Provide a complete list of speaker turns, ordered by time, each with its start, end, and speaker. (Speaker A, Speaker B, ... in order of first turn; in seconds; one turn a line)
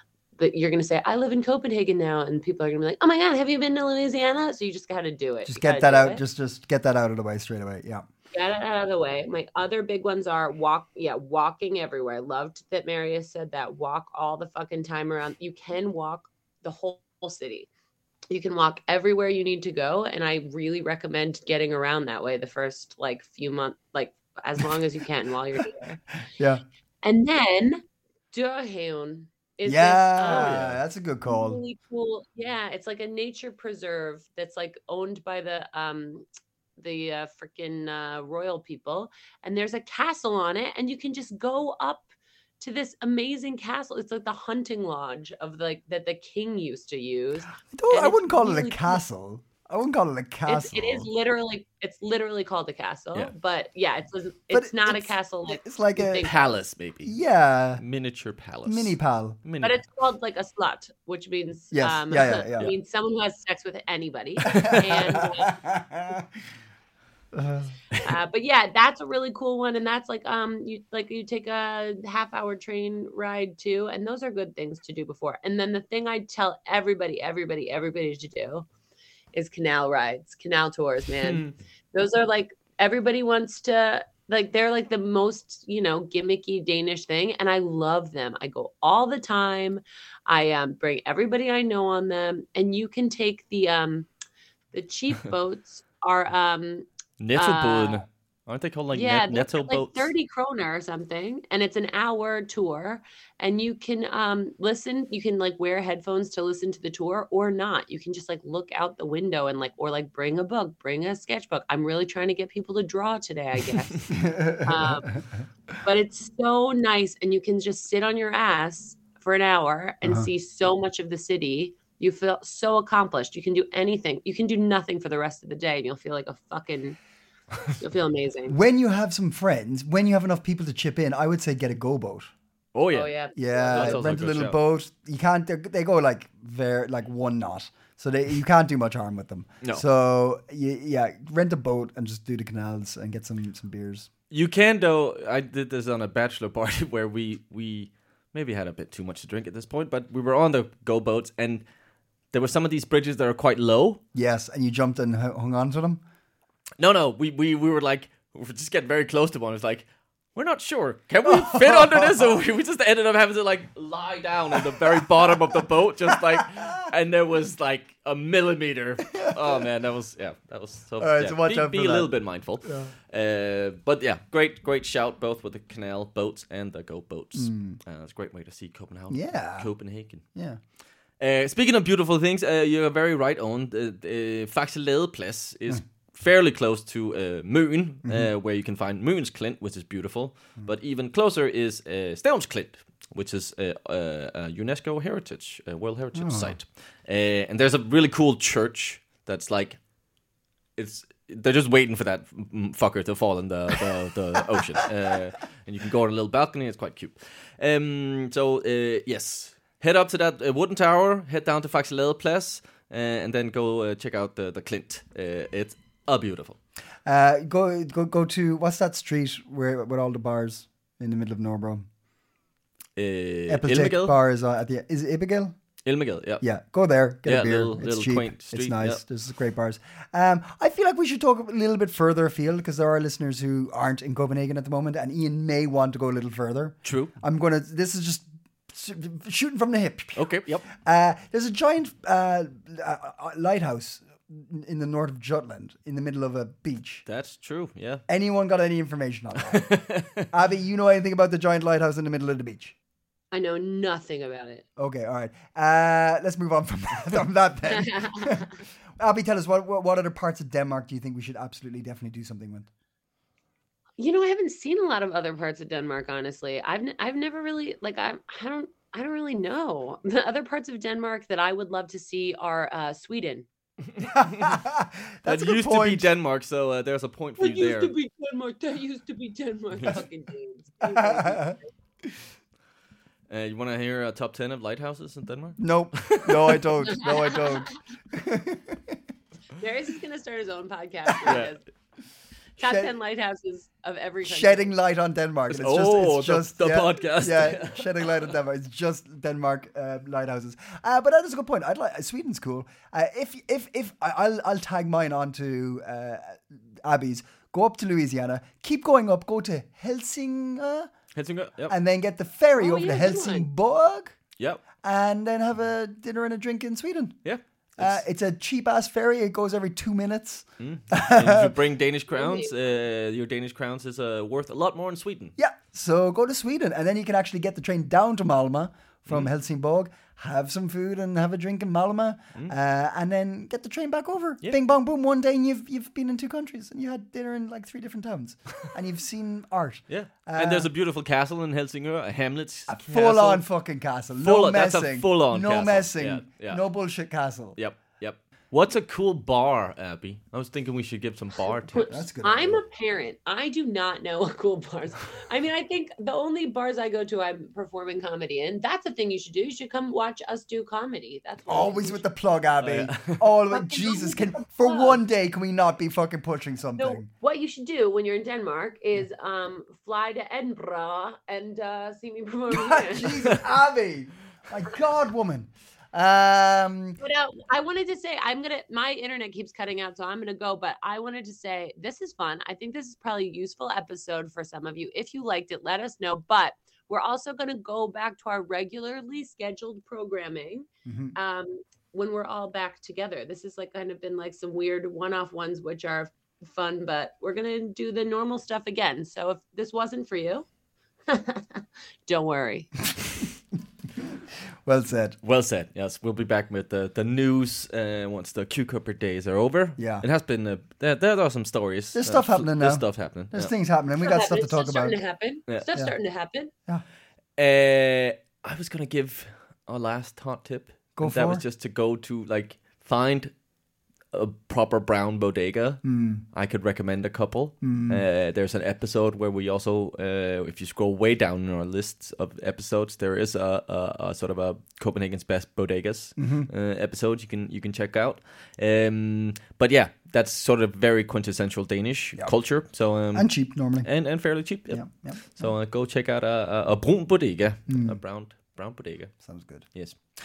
Speaker A: 0.4-6.2
Speaker B: 5.5-8.1
Speaker A: 8.3-17.7
Speaker A: 18.3-26.0
Speaker B: 26.4-26.6
Speaker A: 27.0-30.7
Speaker B: 29.6-31.6
Speaker C: 30.2-30.8
Speaker A: 31.3-36.3
Speaker A: 36.8-42.1
Speaker A: 42.6-49.0
Speaker B: 47.7-51.1
Speaker A: 50.5-56.4
Speaker B: 54.5-56.3
Speaker C: 56.2-57.1
Speaker B: 57.0-57.8
Speaker C: 57.8-59.8
Speaker B: 58.6-59.4
Speaker A: 59.6-65.7
Speaker B: 61.7-62.7
Speaker B: 64.4-66.3
Speaker B: 67.3-68.1
Speaker A: 68.0-78.7
Speaker A: 79.3-94.1
Speaker C: 81.2-81.5
Speaker A: 94.7-98.0
Speaker C: 97.2-100.1
Speaker A: 98.9-115.1
Speaker B: 114.1-115.2
Speaker A: 115.8-127.0
Speaker B: 120.0-120.3
Speaker A: 127.8-128.6
Speaker B: 128.5-132.3
Speaker C: 132.7-133.1
Speaker A: 132.9-134.0
Speaker B: 133.4-144.1
Speaker C: 133.7-134.6
Speaker C: 144.3-151.6
Speaker C: 152.3-154.0
Speaker B: 154.2-156.0
Speaker C: 156.8-180.2
Speaker B: 161.2-162.4
Speaker B: 164.6-166.8
Speaker B: 169.1-169.6
Speaker B: 171.0-172.9
Speaker B: 177.3-177.8
Speaker B: 179.1-179.7
Speaker B: 180.3-180.6
Speaker C: 181.2-199.8
Speaker B: 196.2-196.6
Speaker C: 200.8-216.6
Speaker B: 217.1-221.9
Speaker C: 223.0-224.2
Speaker B: 223.5-225.6
Speaker C: 225.8-226.4
Speaker B: 226.4-247.0
Speaker C: 227.2-229.0
Speaker C: 236.8-237.1
Speaker C: 240.2-240.7
Speaker C: 247.1-248.0
Speaker B: 248.1-249.7
Speaker C: 249.4-250.3
Speaker B: 250.3-252.8
Speaker A: 253.3-254.7
Speaker B: 254.8-262.7
Speaker A: 257.7-258.4
Speaker A: 264.0-273.5
Speaker C: 273.9-274.6
Speaker B: 274.0-276.1
Speaker C: 275.3-277.9
Speaker A: 277.4-281.6
Speaker C: 279.7-280.0
Speaker B: 280.9-281.6
Speaker C: 283.3-287.1
Speaker B: 285.6-289.0
Speaker A: 286.9-287.5
Speaker A: 289.6-291.6
Speaker B: 291.1-291.5
Speaker C: 291.2-291.5
Speaker A: 292.6-294.7
Speaker B: 292.6-292.9
Speaker B: 294.2-310.9
Speaker C: 295.5-298.3
Speaker C: 311.1-311.8
Speaker B: 311.7-314.1
Speaker A: 312.6-313.5
Speaker B: 314.8-317.2
Speaker C: 317.2-318.0
Speaker B: 317.8-321.6
Speaker C: 320.6-325.4
Speaker A: 322.1-322.6
Speaker B: 325.4-340.7
Speaker C: 339.9-343.4
Speaker B: 342.7-347.6
Speaker C: 344.2-346.6
Speaker C: 347.6-352.0
Speaker A: 351.7-362.0
Speaker B: 351.8-352.6
Speaker B: 361.5-367.1
Speaker C: 362.6-363.2
Speaker A: 363.5-365.0
Speaker A: 366.8-373.4
Speaker B: 372.5-377.0
Speaker A: 377.0-400.5
Speaker B: 390.9-391.2
Speaker A: 401.1-402.7
Speaker B: 404.6-405.2
Speaker C: 405.2-413.5
Speaker B: 409.8-410.1
Speaker B: 411.9-415.0
Speaker A: 414.0-416.5
Speaker C: 417.4-423.3
Speaker B: 421.0-421.4
Speaker C: 424.1-443.3
Speaker B: 425.8-426.2
Speaker B: 427.6-428.0
Speaker B: 436.2-436.5
Speaker B: 443.1-443.9
Speaker C: 443.8-449.1
Speaker B: 444.7-445.5
Speaker B: 447.7-448.0
Speaker B: 449.2-449.6